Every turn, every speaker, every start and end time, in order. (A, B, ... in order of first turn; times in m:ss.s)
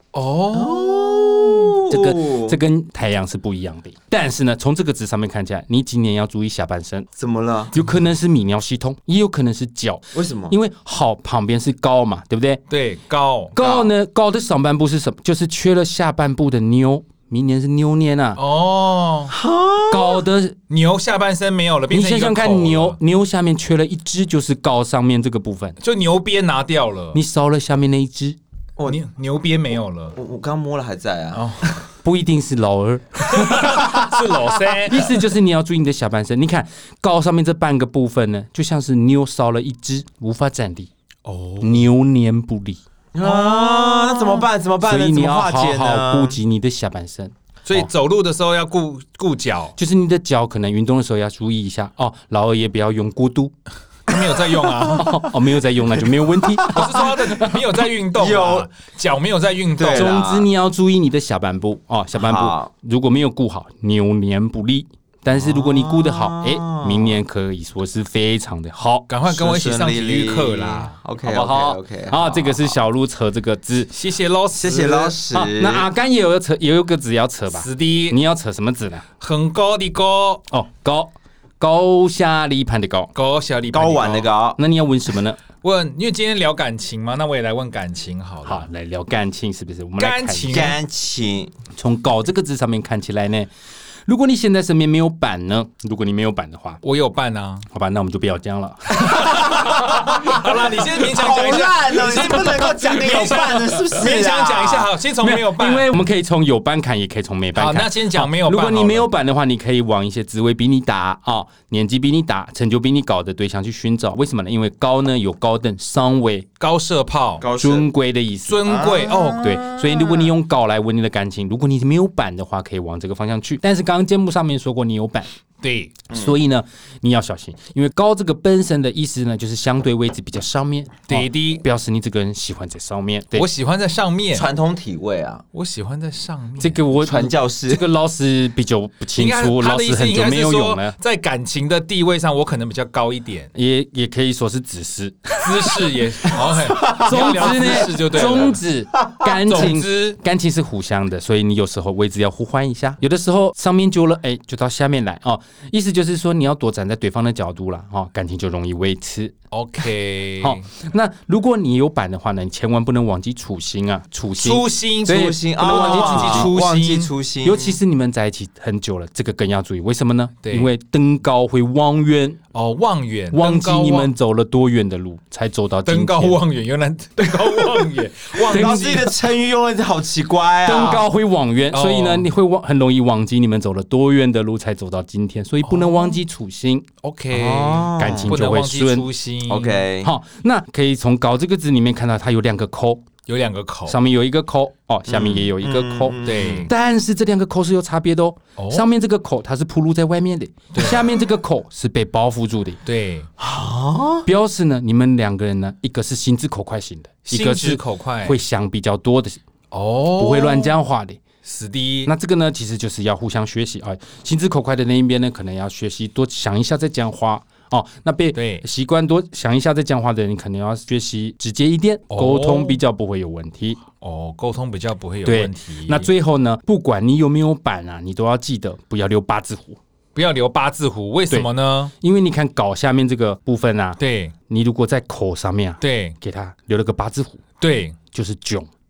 0:00.1-0:01.6 A
0:00.5-0:02.6 B
0:01.9-0:07.1 C
0:07.2-0:07.7 B
0:07.7-0:12.6 C
0:10.1-0:10.6 B
0:12.7-0:13.6 A
0:13.6-0:18.4 C
0:13.6-0:13.9 B
0:18.4-0:19.3 A
0:19.3-0:20.2 B
0:19.9-0:20.6 C
0:20.7-0:23.0 A
0:21.9-0:25.8 C
0:25.8-0:27.2 A
0:27.1-0:28.4 C
0:28.9-0:30.2 A
0:30.2-0:31.5 B
0:31.3-0:31.8 A
0:32.0-0:33.9 C
0:33.3-0:35.1 A
0:34.9-0:40.9 C
0:41.2-0:41.8 A
0:41.6-0:42.8 C
0:43.1-0:46.4 B
0:43.5-0:44.1 C
0:44.8-0:47.9 C
0:47.6-0:49.8 A
0:49.8-0:53.5 C
0:54.1-0:55.2 A
0:54.7-0:55.0 B
0:55.0-0:57.5 C
0:56.6-0:57.2 B
0:56.7-1:00.2 A
0:58.2-0:58.7 B
0:59.8-1:00.5 B
0:59.9-1:09.1 C
1:02.2-1:02.7 B
1:05.3-1:07.2 B
1:09.1-1:11.0 A
1:09.3-1:12.8 B
1:11.2-1:13.9 C
1:13.9-1:15.2 A
1:14.5-1:15.9 B
1:15.3-1:19.1 C
1:17.5-1:18.2 A
1:19.2-1:20.5 A
1:20.5-1:23.1 C
1:23.2-1:24.3 A
1:23.7-1:24.6 B
1:24.6-1:25.4 C
1:25.6-1:28.7 A
1:28.4-1:30.7 C
1:30.0-1:30.8 A
1:30.5-1:31.5 B
1:31.8-1:33.5 C
1:34.1-1:36.8 C
1:36.8-1:37.7 A
1:37.7-1:39.4 C
1:39.0-1:45.9 A
1:39.1-1:44.9 B
1:43.5-1:43.9 C
1:45.2-1:56.5 C
1:47.6-1:49.1 A
1:56.6-1:57.5 A
1:57.4-1:57.9 B
1:57.6-1:58.7 C
1:58.5-1:59.6 A
1:58.6-2:00.0 B
1:59.4-2:05.3 C
2:05.6-2:06.0 A
2:06.1-2:06.4 B
2:06.1-2:13.5 C
2:11.1-2:11.6 A
2:13.3-2:14.5 A
2:14.3-2:15.4 B
2:15.5-2:16.8 A
2:16.6-2:21.0 C
2:17.0-2:17.9 B
2:19.2-2:23.5 A
2:23.6-2:25.5 C
2:25.4-2:28.6 A
2:26.4-2:27.7 B
2:26.9-2:39.3 C
2:29.2-2:29.7 B
2:29.5-2:30.2 A
2:39.5-2:40.7 A
2:40.4-2:46.5 C
2:44.4-2:47.1 A
2:45.0-2:47.8 B
2:47.4-2:52.4 C
2:50.4-2:50.7 A
2:52.5-2:54.1 A
2:53.3-2:56.4 C
2:55.9-2:59.1 A
2:57.3-3:01.1 B
2:58.6-2:58.9 C
3:00.6-3:06.9 C
3:01.7-3:02.3 A
3:05.7-3:06.1 A
3:07.0-3:09.9 A
3:07.3-3:08.4 B
3:08.0-3:09.1 C
3:09.5-3:10.1 B
3:10.0-3:13.1 C
3:13.3-3:14.0 A
3:13.9-3:22.8 C
3:15.1-3:16.7 B
3:16.2-3:16.7 A
3:18.6-3:18.9 A
3:20.7-3:21.0 A
3:22.9-3:23.3 A
3:23.4-3:24.3 B
3:24.3-3:29.4 C
3:27.3-3:28.4 A
3:29.7-3:30.7 A
3:30.2-3:31.2 C
3:31.4-3:32.1 A
3:32.1-3:43.8 C
3:38.4-3:38.6 A
3:42.1-3:42.8 A
3:44.0-3:46.1 A
3:45.3-3:49.8 C
3:50.2-3:51.9 A
3:52.0-3:57.4 C
3:54.0-3:54.3 A
3:55.8-3:56.2 A
3:57.6-3:58.0 A
3:58.1-3:58.7 C